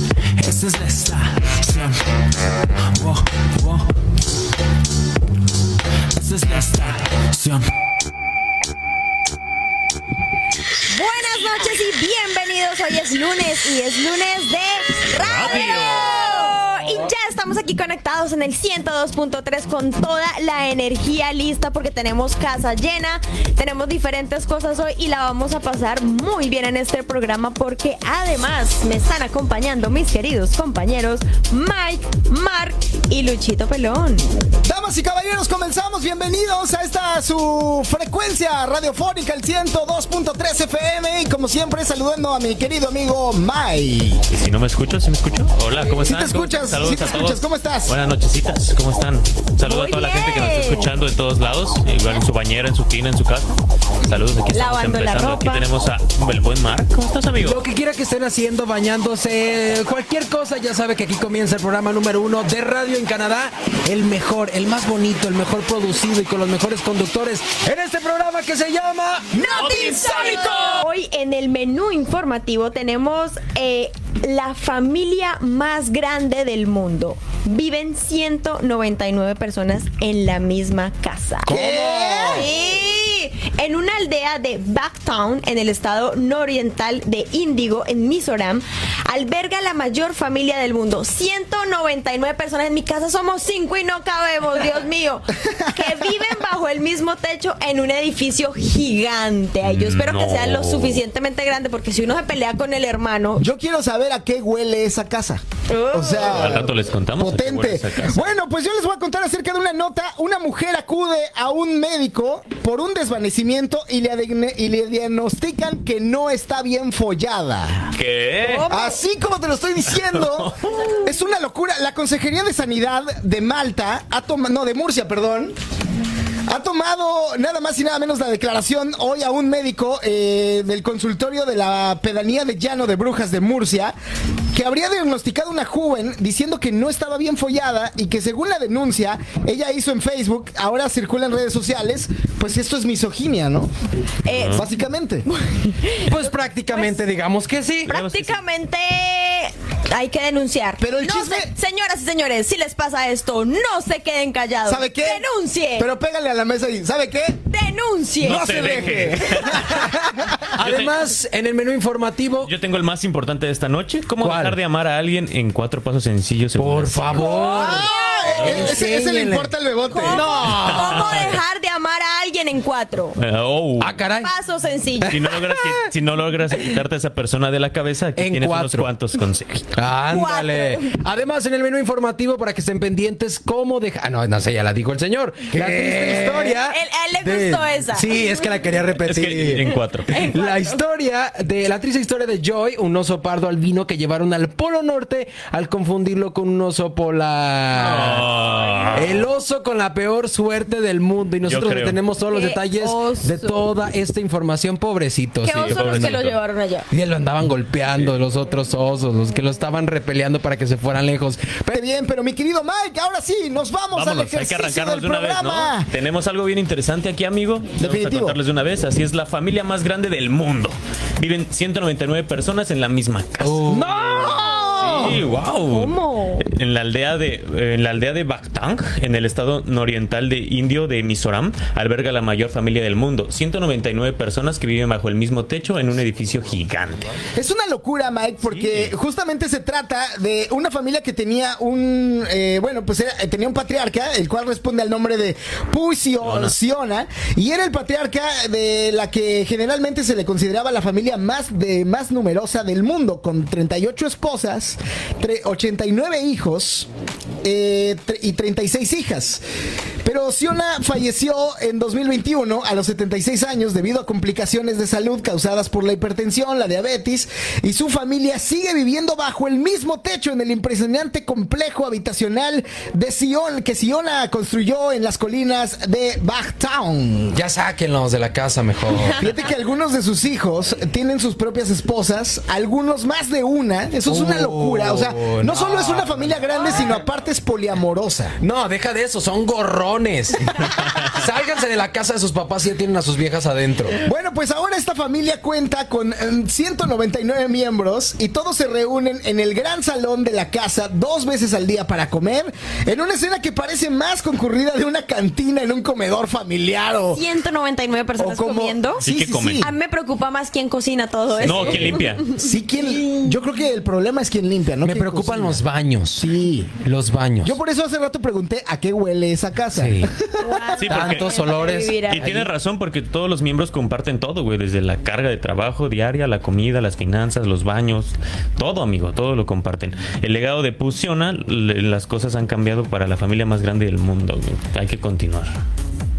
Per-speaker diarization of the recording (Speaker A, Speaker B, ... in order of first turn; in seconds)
Speaker A: 0.4-3.9, 6.1-7.7
Speaker B: 10.9-34.5, 49.6-50.9, 54.5-55.7, 69.3-103.5, 105.7-106.7, 118.5-118.9, 144.2-144.7, 145.3-146.2, 147.9-155.9, 157.5-158.7, 167.2-168.8, 169.9-173.2, 174.2-175.2, 180.1-180.9, 185.8-188.2, 190.1-190.8, 202.3-203.7, 205.4-206.9, 224.2-224.7, 225.6-226.5, 307.1-309.1, 309.6-313.3, 320.4-322.3
Speaker C: 15.2-16.4, 44.3-57.6, 69.6-70.8, 99.6-101.0, 106.1-108.3, 118.0-118.7, 120.0-120.9, 144.3-144.7, 147.9-148.4, 158.2-159.8, 160.6-160.9, 162.4-167.5, 168.3-168.8, 170.5-171.3, 173.2-174.0, 175.1-179.7, 189.0-190.3, 197.8-199.2, 201.5-202.0, 205.6-206.4, 213.9-223.9, 224.8-237.1, 238.5-238.9, 246.2-246.6, 309.0-309.7, 311.4-312.3, 320.8-321.3, 322.1-335.5
Speaker D: 34.6-44.2, 45.7-48.0, 81.5-82.5, 103.4-117.9, 118.7-125.6, 126.5-134.0, 134.5-143.7, 144.6-145.3, 150.8-151.5, 154.7-157.4, 158.2-160.5, 167.2-170.3, 185.6-186.6, 211.7-215.9, 217.8-218.4, 223.7-225.2, 237.4-256.9, 257.4-259.4, 260.0-277.4, 279.1-288.4, 294.0-307.2, 308.2-309.7, 311.4-315.6, 316.1-316.7, 317.4-320.6
Speaker E: 57.4-69.5, 81.5-82.5, 146.0-147.9, 159.5-162.5, 164.2-164.6, 166.6-171.3, 173.8-174.3, 175.0-175.9, 178.2-178.9, 179.7-198.4, 198.9-206.2, 206.9-211.8, 223.4-225.3, 277.3-279.2, 284.1-286.8, 288.4-294.0, 314.8-317.6, 319.7-320.1, 320.9-322.5